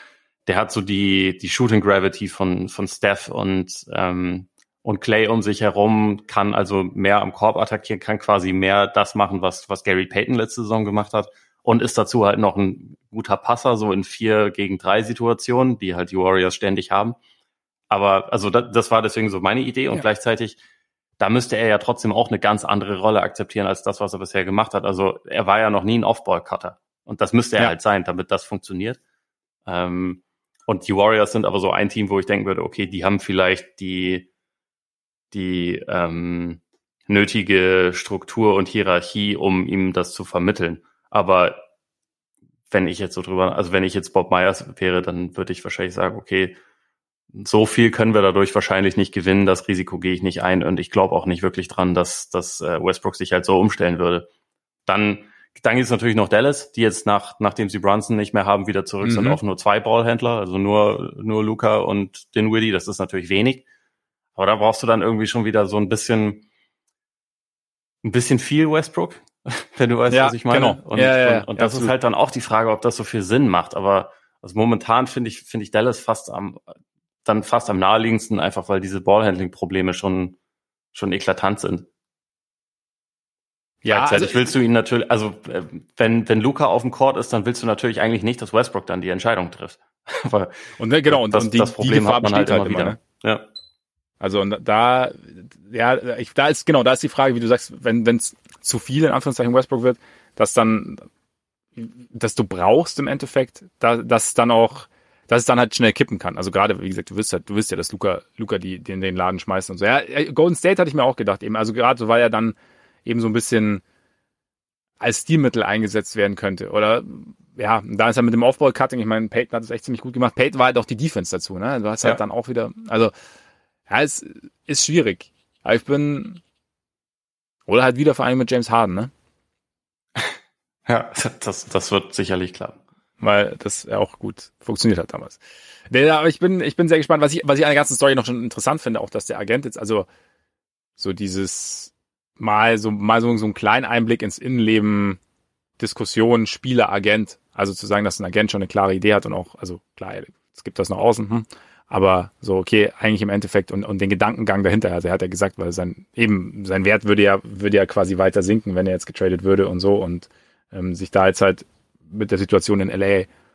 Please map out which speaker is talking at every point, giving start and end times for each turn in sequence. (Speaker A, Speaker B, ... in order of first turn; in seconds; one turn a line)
Speaker A: 0.5-17.2
Speaker A: 17.9-20.6
Speaker A: 21.2-29.0
Speaker A: 29.7-34.3
Speaker A: 35.3-41.6
Speaker A: 42.7-46.6
Speaker A: 47.3-54.3
Speaker A: 54.9-63.7
Speaker B: 59.0-59.4
Speaker A: 64.4-66.5
Speaker A: 68.0-76.7
Speaker B: 70.1-71.9
Speaker A: 77.2-80.4
Speaker A: 80.9-81.9
Speaker B: 83.8-84.5
Speaker A: 83.9-90.5
Speaker B: 90.8-93.0
Speaker A: 91.1-93.5
Speaker B: 94.2-101.1
Speaker B: 101.8-113.8
Speaker B: 115.0-123.1
Speaker B: 123.9-126.4
Speaker B: 127.7-129.1
Speaker A: 130.9-132.8
Speaker B: 133.2-140.1
Speaker B: 141.0-145.2
Speaker B: 145.8-163.3